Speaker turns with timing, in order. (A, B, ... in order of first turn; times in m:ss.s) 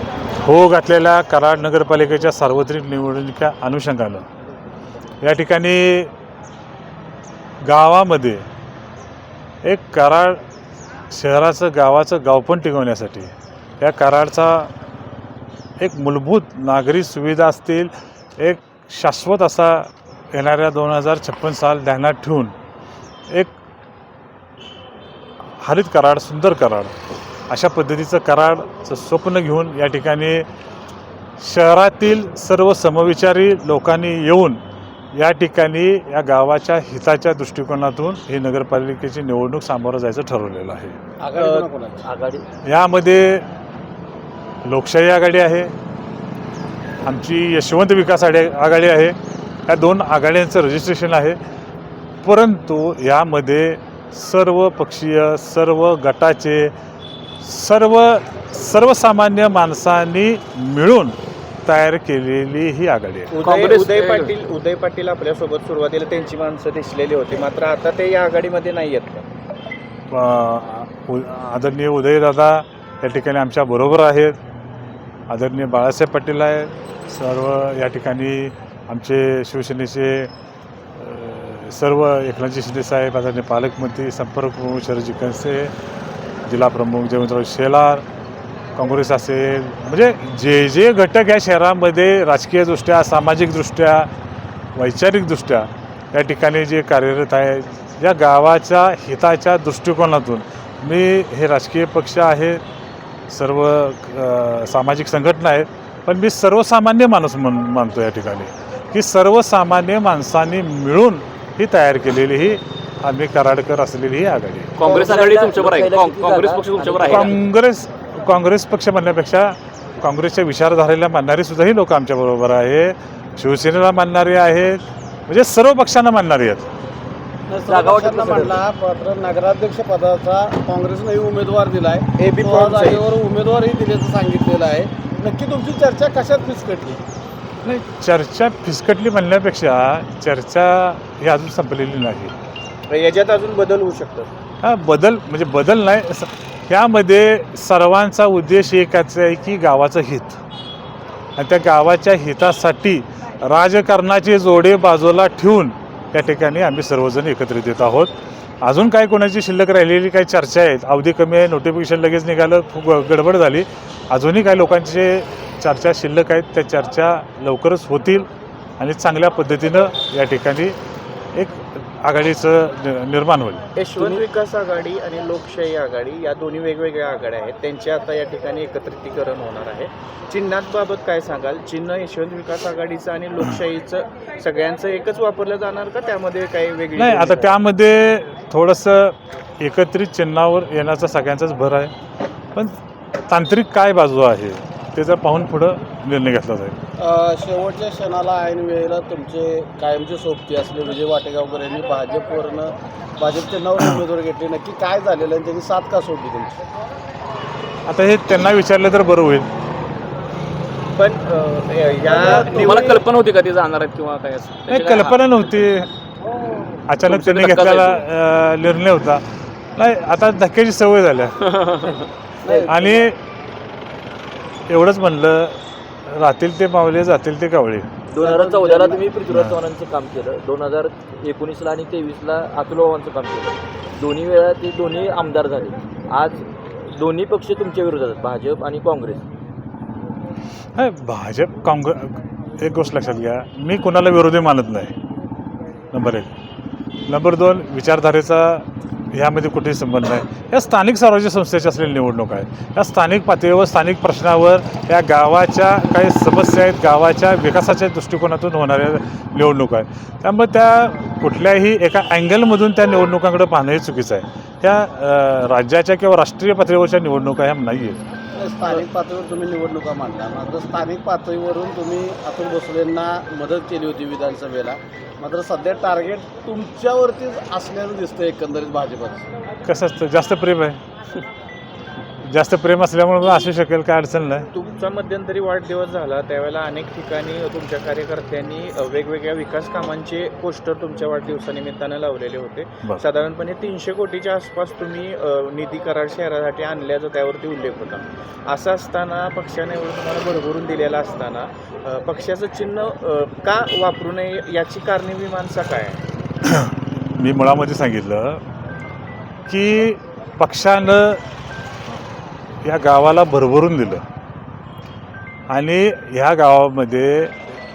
0:00.4-0:04.2 A
0:05.2-0:06.1 A
0:07.6-0:08.4 A
0:09.6-0:10.4 A
0:11.1-0:14.7 A
0:15.8-0:22.5 A
0:25.6-0:26.9 A
0:27.5-0:30.4 A
0:31.4-0:34.6 A
0:35.1-0:41.0 A
0:41.2-0:42.0 B
0:42.0-0:42.4 C
0:42.6-0:43.4 A
0:44.6-0:45.7 A
0:47.0-0:49.2 A
0:49.7-0:51.4 A
0:52.2-0:56.7 A
0:57.4-1:03.3 A
1:03.3-1:09.2 D
1:03.4-1:04.3 E
1:10.1-1:14.4 A
1:15.3-1:20.3 A
1:21.0-1:25.7 A
1:26.4-1:28.0 A
1:28.8-1:34.1 A
1:34.8-1:42.6 A
1:43.3-1:54.7 A
1:54.8-1:57.4 E
1:54.8-1:57.3 C
1:57.0-2:06.7 A
2:07.5-2:17.0 B
2:07.7-2:08.6 C
2:12.2-2:13.0 D
2:17.6-2:22.3 A
2:22.9-2:24.3 D
2:24.6-2:30.4 A
2:31.4-2:50.8 A
2:51.4-2:53.6 A
2:53.8-3:07.5 D
2:54.0-2:54.2 C
3:07.0-3:11.9 A
3:13.3-3:16.8 A
3:17.0-3:26.6 B
3:27.9-3:29.5 A
3:31.0-3:33.0 D
3:32.1-3:33.0 B
3:32.3-3:35.2 E
3:34.7-3:35.9 A
3:36.9-3:39.2 A
3:37.0-3:38.0 E
3:39.8-3:41.3 A
3:41.5-3:42.0 E
3:42.4-3:43.0 B
3:42.5-3:42.8 C
3:42.7-3:43.2 A
3:44.7-3:47.9 A
3:48.1-3:59.2 C
3:48.2-3:49.1 B
3:49.3-3:49.6 A
4:00.8-4:04.9 A
4:05.9-4:06.3 A
4:07.1-4:28.0 A
4:28.4-4:39.2 B
4:39.6-4:40.8 A
4:42.2-4:44.5 A
4:44.5-5:06.0 D
5:06.4-5:08.4 A
5:09.5-5:11.2 A
5:12.6-5:14.0 A
5:15.5-5:17.5 A